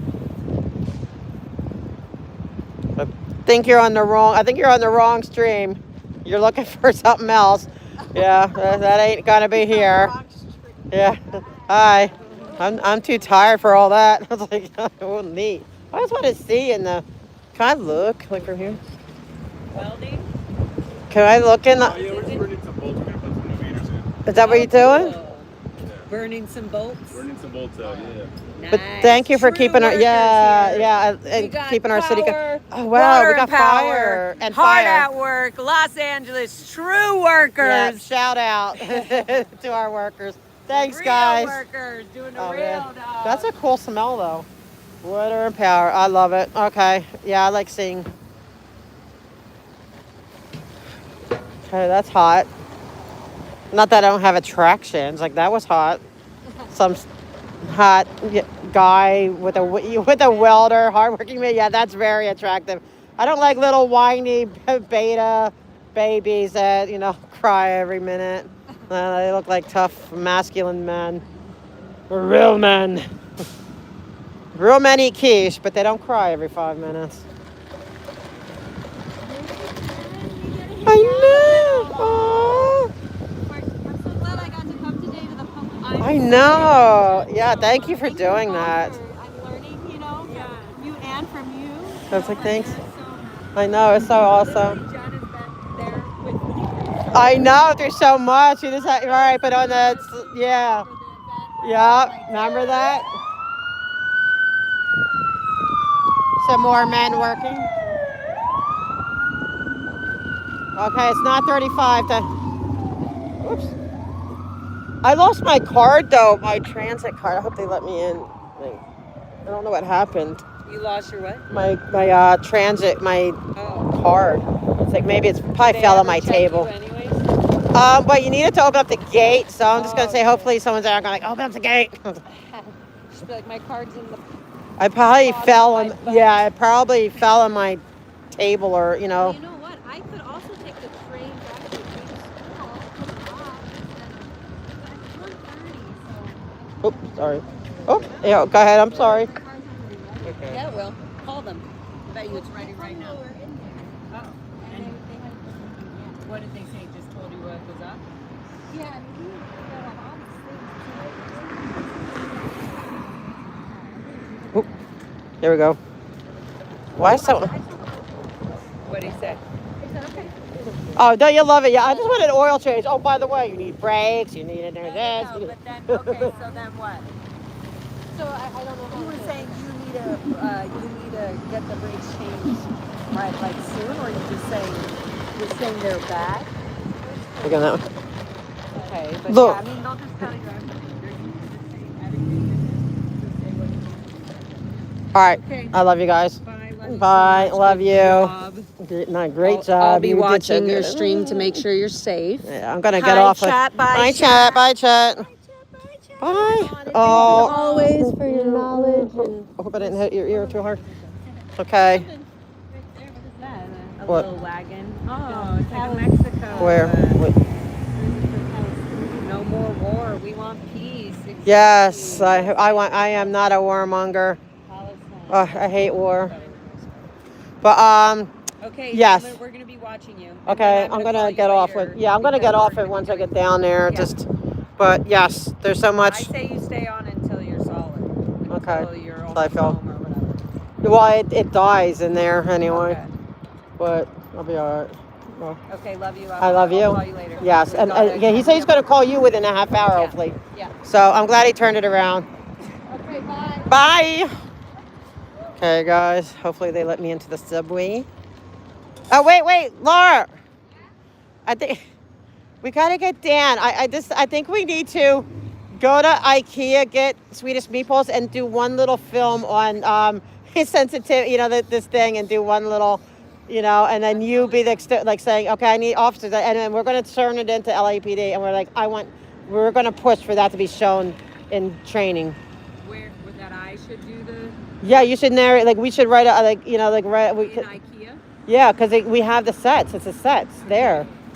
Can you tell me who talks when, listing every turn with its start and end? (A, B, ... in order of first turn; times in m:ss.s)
0:03.0-0:10.2 A
0:08.4-0:08.7 B
0:09.5-0:10.9 B
0:10.9-0:17.0 A
0:11.7-0:12.8 B
0:12.2-0:12.5 C
0:17.6-0:18.8 A
0:19.7-0:20.3 C
0:21.1-0:22.1 A
0:21.8-0:24.1 D
0:21.9-0:22.5 C
0:24.2-0:25.2 A
0:24.3-0:25.5 C
0:26.1-0:38.1 C
0:27.2-0:28.3 D
0:28.7-0:35.1 A
0:37.6-0:41.6 A
0:38.7-0:39.3 C
0:40.7-0:43.5 C
0:42.4-0:44.5 A
0:45.0-0:48.1 A
0:51.7-0:52.5 A
0:53.7-0:56.0 A
0:56.7-0:57.1 A
0:57.6-1:11.2 A
0:59.7-1:00.4 B
1:12.1-1:13.0 A
1:14.5-1:17.3 A
1:19.2-1:22.8 B
1:20.8-1:22.9 A
1:23.5-1:34.7 B
1:24.2-1:24.8 C
1:26.0-1:29.0 A
1:26.4-1:26.8 C
1:30.2-1:31.0 C
1:32.1-1:32.8 A
1:32.1-1:32.4 C
1:33.6-1:34.8 A
1:34.3-1:37.4 C
1:37.1-1:40.9 A
1:39.0-1:43.0 B
1:41.6-1:43.1 A
1:46.4-1:48.0 A
1:50.8-1:52.3 A
1:53.4-1:53.7 A
1:55.0-1:58.8 A
1:59.5-2:00.4 A
2:00.7-2:01.5 C
2:01.5-2:03.4 A
2:03.6-2:03.9 C
2:03.9-2:06.7 A
2:05.6-2:07.3 C
2:07.7-2:12.2 A
2:09.7-2:10.6 C
2:12.3-2:14.2 C
2:14.8-2:17.8 A
2:15.1-2:16.4 C
2:18.3-2:19.4 A
2:19.2-2:31.1 B
2:26.8-2:29.3 A
2:28.1-2:28.4 C
2:30.2-2:30.6 A
2:30.4-2:33.2 C
2:32.2-2:34.1 B
2:34.1-2:35.0 C
2:34.6-2:36.3 B
2:36.2-2:38.0 C
2:38.7-2:44.9 B
2:45.4-2:45.8 A
2:47.0-2:47.5 A
2:47.0-2:48.3 B
2:48.9-2:49.4 C
2:49.8-2:50.4 B
2:51.0-2:56.3 A
2:51.9-2:52.3 B
2:54.8-2:57.1 C
2:56.0-2:56.7 B
2:58.1-2:59.6 B
2:58.9-3:06.5 C
3:07.0-3:07.8 B
3:07.4-3:07.8 A
3:08.7-3:14.8 C
3:09.3-3:09.6 A
3:15.1-3:21.6 A
3:15.4-3:15.8 C
3:16.4-3:18.7 C
3:19.4-3:24.6 C
3:22.4-3:25.3 A
3:25.2-3:34.5 B
3:26.2-3:30.8 A
3:26.4-3:28.0 C
3:31.6-3:32.1 A
3:34.0-3:37.2 C
3:35.2-3:36.9 B
3:36.6-3:37.4 A
3:38.0-3:39.3 B
3:39.2-3:43.4 C
3:41.4-3:44.4 A
3:44.7-3:47.2 C
3:45.3-3:46.3 A
3:47.6-3:48.3 A
3:48.6-3:53.3 C
3:48.9-3:49.4 A
3:50.5-3:54.3 A
3:53.9-3:54.1 C
3:54.8-3:56.3 A
3:56.0-4:00.4 C
3:58.5-3:59.8 A
4:00.8-4:03.0 A
4:02.6-4:03.1 C
4:03.8-4:05.6 A
4:05.7-4:08.9 C
4:06.4-4:12.3 A
4:09.9-4:10.7 C
4:12.9-4:13.8 B
4:13.7-4:14.3 A
4:15.6-4:18.1 A
4:19.1-4:20.3 A
4:21.5-4:21.8 A
4:22.6-4:42.4 A
4:34.0-4:34.9 C
4:42.8-4:45.0 C
4:44.8-4:47.7 A
4:47.4-4:48.2 C
4:48.5-4:51.1 A
4:50.6-4:51.1 C